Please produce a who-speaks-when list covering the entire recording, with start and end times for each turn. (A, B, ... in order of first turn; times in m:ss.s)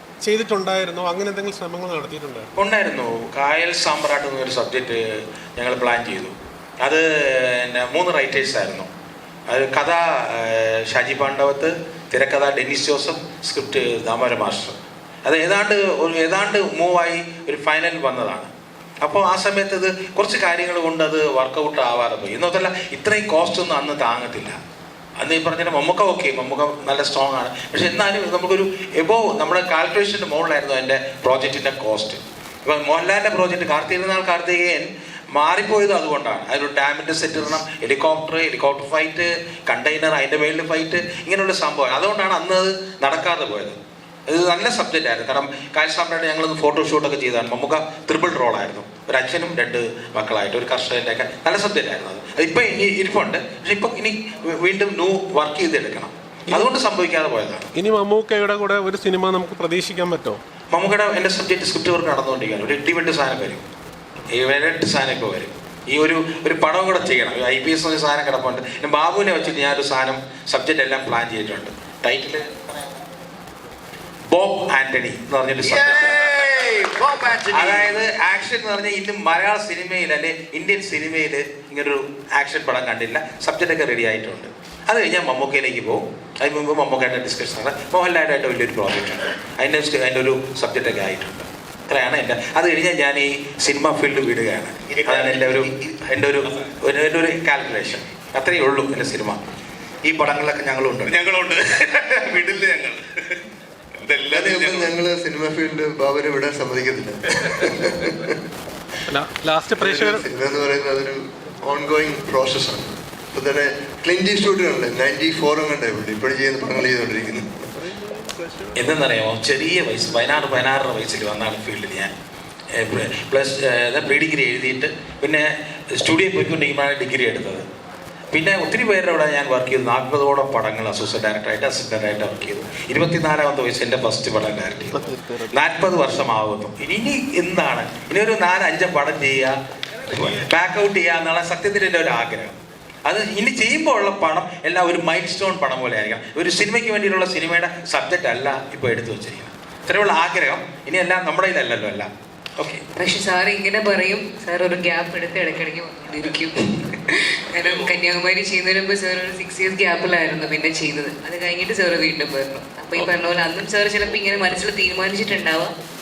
0:00.2-0:02.5 A
0:02.6-0:08.9 B
0:09.5-0:18.5 B
0:19.0-0:24.6 B
0:25.2-0:57.7 B
0:57.8-1:00.4 A
1:00.7-1:03.6 B
1:04.3-1:12.9 B
1:14.3-1:16.4 B
1:15.6-1:18.0 C
1:17.5-1:39.4 B
1:34.9-1:35.7 C
1:40.0-1:41.2 B
1:41.1-1:43.4 C
1:44.0-1:44.9 C
1:44.3-1:48.3 D
1:49.1-1:50.3 A
1:49.8-1:57.8 D
1:58.0-1:58.7 A
1:58.8-2:02.1 B
2:02.8-2:07.7 B
2:08.3-2:22.6 B
2:14.9-2:15.5 A
2:23.1-2:32.8 B
2:33.0-2:45.7 E